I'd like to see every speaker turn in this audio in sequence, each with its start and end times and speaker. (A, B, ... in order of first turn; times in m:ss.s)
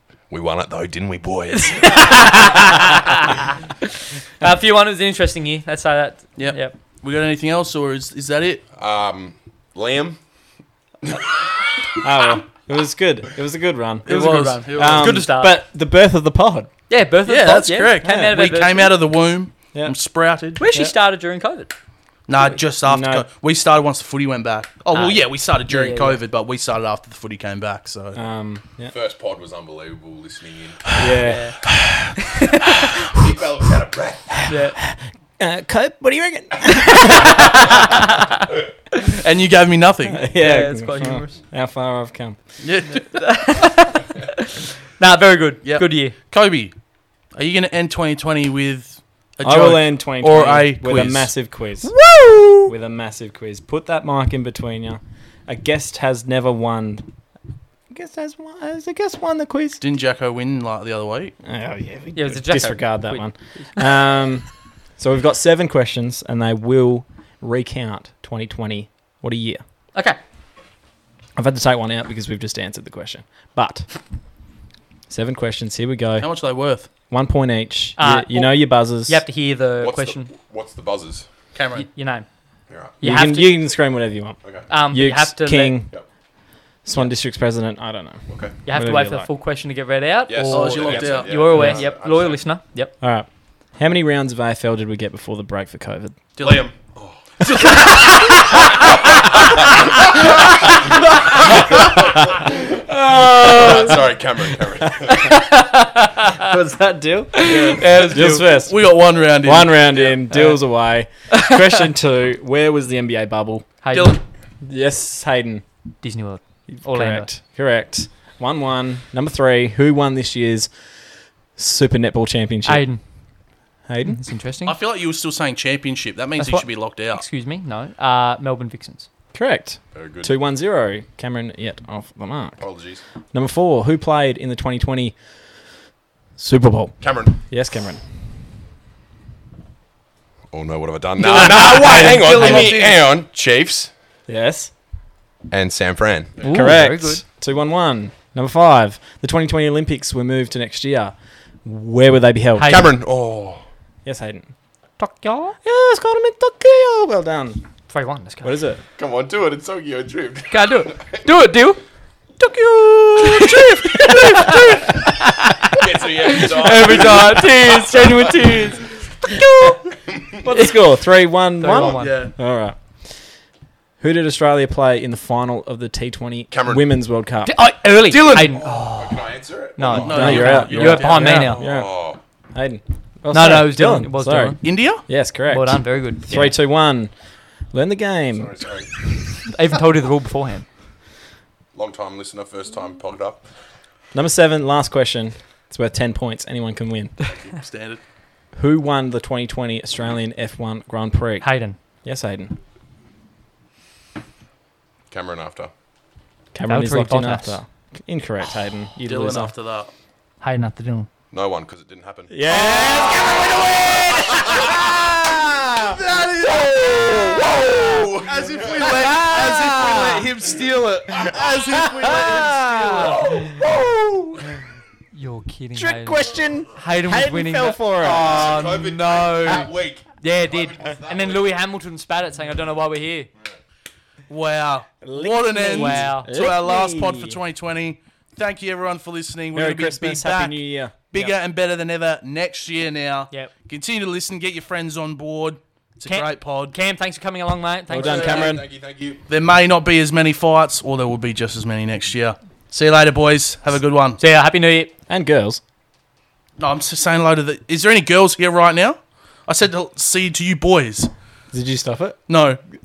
0:00.3-0:02.8 A
0:01.6-0:03.5 B
0:04.4-0:06.8 B
0:06.4-0:08.6 C
0:08.8-0:10.2 A
0:12.0-0:16.7 D
0:14.0-0:15.2 C
0:14.0-0:15.6 B
0:16.9-0:18.9 B
0:17.2-0:20.6 C
0:18.0-0:18.3 D
0:20.6-0:21.7 B
0:22.3-0:28.2 C
0:22.8-0:23.3 D
0:24.9-0:26.2 B
0:28.1-0:28.9 D
0:28.9-0:31.0 A
0:31.0-0:31.6 D
0:31.2-0:31.6 B
0:32.3-0:32.9 B
0:32.9-0:34.5 A
0:34.5-0:34.8 B
0:34.8-0:37.6 D
0:36.9-0:38.4 B
0:39.0-0:40.3 C
0:40.1-0:42.4 D
0:40.3-0:41.4 B
0:42.6-0:43.1 C
0:42.9-0:46.1 B
0:45.6-0:46.7 C
0:47.3-0:51.3 C
0:49.4-0:51.9 D
0:51.9-0:52.6 B
0:52.6-0:57.0 D
0:57.9-0:59.8 D
0:59.8-1:01.4 C
1:01.4-1:04.4 D
1:02.1-1:03.9 B
1:05.0-1:09.6 D
1:11.4-1:13.9 D
1:15.1-1:16.3 D
1:16.2-1:16.9 C
1:17.1-1:19.2 D
1:18.0-1:20.3 B
1:19.8-1:21.2 A
1:21.5-1:21.9 C
1:21.7-1:22.3 B
1:23.0-1:23.5 B
1:23.0-1:24.4 D
1:24.7-1:25.8 B
1:24.9-1:25.9 D
1:26.8-1:29.3 D
1:28.3-1:28.5 A
1:28.6-1:32.9 B
1:30.3-1:32.4 A
1:30.5-1:31.6 C
1:31.6-1:31.8 D
1:33.0-1:36.2 D
1:36.4-1:36.6 C
1:36.4-1:45.4 A
1:41.5-1:42.2 D
1:42.9-1:44.0 D
1:44.8-1:45.4 D
1:45.1-1:46.5 B
1:46.4-1:48.8 D
1:47.4-1:48.6 B
1:47.5-1:50.2 C
1:49.4-1:53.8 D
1:51.3-1:51.8 B
1:53.8-1:54.2 B
1:53.9-1:54.2 C
1:54.6-1:55.6 D
1:56.0-1:57.3 B
1:56.8-2:00.7 D
2:01.6-2:02.8 D
2:02.6-2:03.0 B
2:03.9-2:04.2 D
2:04.0-2:04.8 B
2:04.6-2:07.2 C
2:06.4-2:09.1 B
2:09.3-2:12.6 D
2:09.9-2:10.3 A
2:12.6-2:13.0 A
2:13.3-2:15.2 D
2:16.4-2:18.0 D
2:17.0-2:17.3 A
2:20.5-2:23.9 A
2:21.2-2:23.0 C
2:21.5-2:22.6 B
2:24.3-2:24.7 D
2:25.5-2:26.4 A
2:26.4-2:27.2 B
2:26.5-2:31.1 D
2:31.6-2:32.8 D
2:32.6-2:32.9 B
2:32.6-2:33.6 A
2:34.0-2:34.5 D
2:35.0-2:35.6 B
2:35.6-2:37.6 D
2:37.9-2:38.6 B
2:38.4-2:38.8 D
2:39.0-2:41.2 A
2:40.5-2:41.8 B
2:42.4-2:44.9 C
2:43.2-2:49.7 B
2:45.7-2:48.6 A
2:50.4-2:52.8 D
2:50.5-2:50.7 B
2:51.6-2:52.2 B
2:52.0-2:52.3 C
2:54.0-2:57.5 D
2:56.5-2:56.9 A
2:57.4-2:59.2 B
2:58.1-2:58.6 C
2:58.6-3:00.5 A
2:59.8-3:01.6 B
3:00.0-3:01.5 C
3:00.0-3:01.9 D
3:01.2-3:02.2 A
3:02.5-3:07.1 D
3:03.3-3:04.6 B
3:04.6-3:05.0 C
3:05.5-3:06.6 B
3:07.7-3:08.5 D
3:08.3-3:08.9 A
3:09.4-3:10.6 B
3:11.7-3:13.4 A
3:14.1-3:17.1 D
3:17.3-3:18.0 C
3:18.6-3:21.4 D
3:21.4-3:21.8 B
3:22.0-3:22.5 D
3:25.1-3:25.7 A
3:26.5-3:29.5 D
3:26.7-3:27.6 B
3:29.0-3:29.9 C
3:30.4-3:31.1 B
3:31.3-3:43.6 A
3:32.3-3:36.0 D
3:36.0-3:36.6 C
3:36.8-3:38.1 D
3:38.2-3:43.2 C
3:38.8-3:40.3 D
3:41.8-3:44.5 D
3:45.1-3:53.3 B
3:45.8-3:48.6 D
3:48.0-3:51.4 A
3:54.3-4:06.7 C
3:55.0-3:57.4 D
3:55.7-3:56.3 B
3:59.5-4:01.3 D
4:06.0-4:08.5 B
4:07.9-4:08.6 D
4:08.0-4:09.2 A
4:09.3-4:14.2 C
4:14.2-4:14.9 B
4:15.1-4:15.6 D
4:16.6-4:21.1 C
4:21.5-4:22.2 D
4:22.3-4:22.6 C